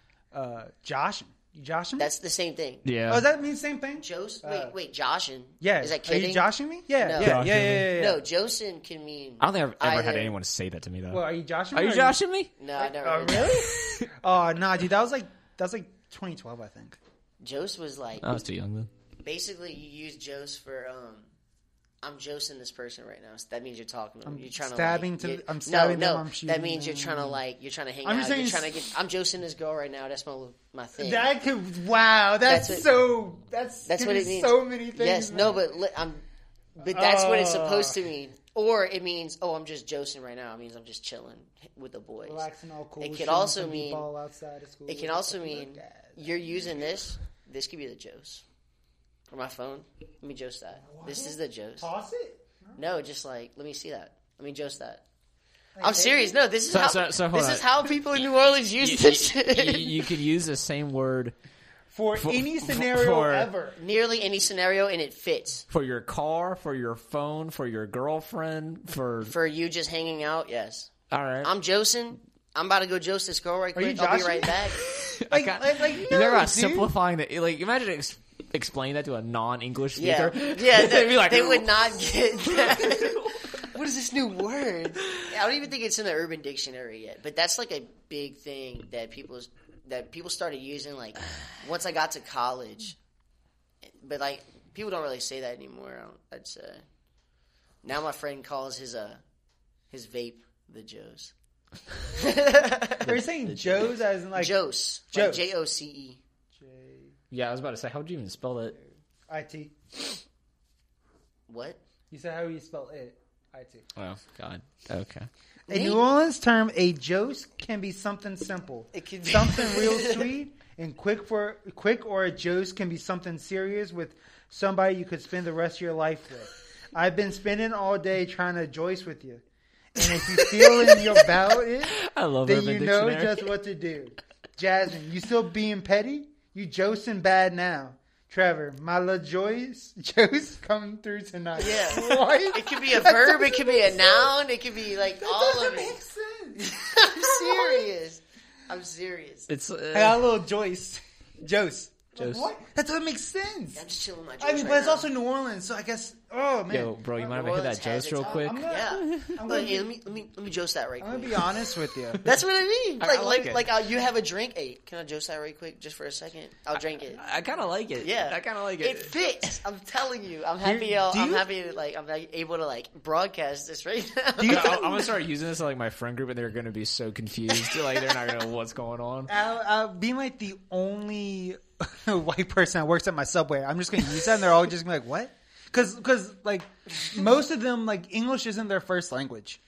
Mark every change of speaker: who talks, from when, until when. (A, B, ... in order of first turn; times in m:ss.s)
0:00.3-0:02.1 A
0:02.0-0:02.8 B
0:02.8-0:03.2 C
0:03.1-0:04.7 A
0:04.0-0:10.3 B
0:05.6-0:08.2 A
0:07.2-0:07.9 C
0:09.4-0:12.5 C
0:11.1-0:12.2 A
0:12.6-0:13.6 B
0:12.8-0:17.0 A
0:13.5-0:14.1 C
0:17.4-0:18.3 B
0:18.2-0:18.9 C
0:19.2-0:21.3 B
0:22.0-0:31.3 B
0:24.2-0:27.4 A
0:28.0-0:28.8 A
0:31.0-0:35.7 A
0:32.4-0:32.8 B
0:33.8-0:36.2 B
0:36.8-0:42.4 B
0:36.8-0:38.0 A
0:42.2-0:47.0 A
0:43.0-0:44.1 B
0:44.9-0:48.4 B
0:49.3-0:51.9 B
0:50.8-0:52.8 A
0:52.8-0:55.0 B
0:55.8-0:56.4 A
0:55.8-1:00.1 B
0:56.7-1:01.3 C
1:01.9-1:03.8 A
1:02.2-1:03.5 C
1:03.8-1:05.6 B
1:05.7-1:09.3 C
1:09.2-1:10.9 B
1:11.1-1:11.5 C
1:11.4-1:14.8 B
1:13.7-1:14.7 A
1:14.9-1:23.4 C
1:15.3-1:16.9 A
1:19.9-1:33.0 B
1:33.8-1:36.8 B
1:37.8-1:39.2 B
1:39.9-1:41.3 B
1:42.1-1:43.1 B
1:43.0-1:43.9 C
1:43.0-1:44.6 A
1:44.3-1:46.2 B
1:45.1-1:45.4 A
1:46.5-1:47.2 A
1:47.3-1:48.8 C
1:49.3-1:49.7 A
1:51.5-1:51.8 B
1:52.1-1:53.8 A
1:54.0-1:55.3 C
1:55.7-2:24.3 A
1:55.7-1:56.0 B
1:58.9-2:00.3 B
2:10.3-2:13.5 C
2:21.6-2:26.0 B
2:25.2-2:27.9 A
2:26.7-2:29.5 B
2:29.5-2:30.2 C
2:29.9-2:33.8 A
2:32.2-2:32.5 C
2:33.7-2:35.1 B
2:34.4-2:37.3 A
2:36.7-2:39.4 C
2:37.2-2:41.5 B
2:38.2-2:39.9 A
2:41.0-2:42.2 A
2:42.2-2:47.2 B
2:43.0-2:43.7 C
2:46.9-2:49.1 C
2:48.0-2:54.8 B
2:50.6-2:51.5 A
2:54.4-2:55.1 A
2:54.4-2:59.3 C
2:57.6-2:58.1 B
2:59.3-3:09.6 A